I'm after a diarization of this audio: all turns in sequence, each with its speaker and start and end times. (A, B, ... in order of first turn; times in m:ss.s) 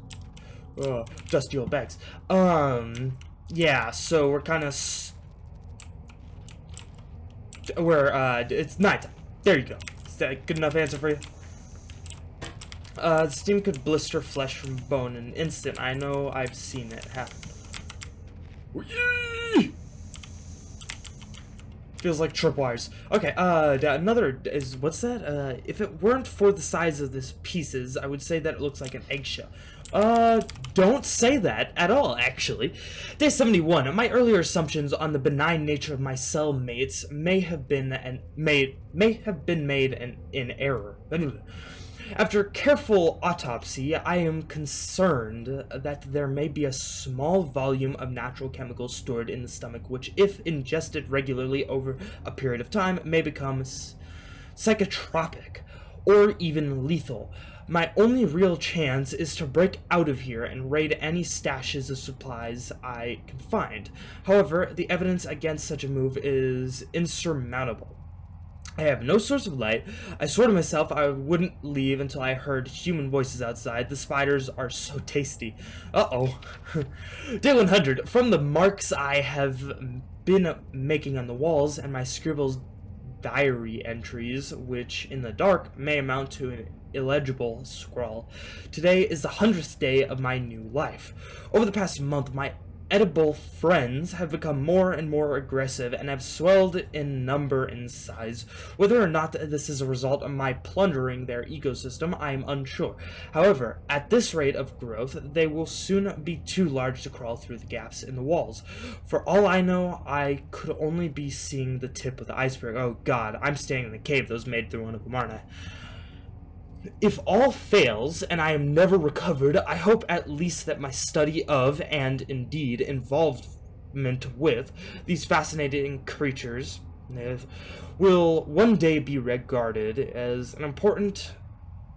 0:00.8-0:05.2 A
0:07.7-0:11.2 A
0:13.0-0:17.5 A
0:18.7-0:19.7 A
0:22.0-0:41.4 A
0:42.1-0:54.0 A
0:54.6-1:08.0 A
1:08.8-1:22.6 A
1:23.2-1:55.4 A
1:57.0-2:11.4 A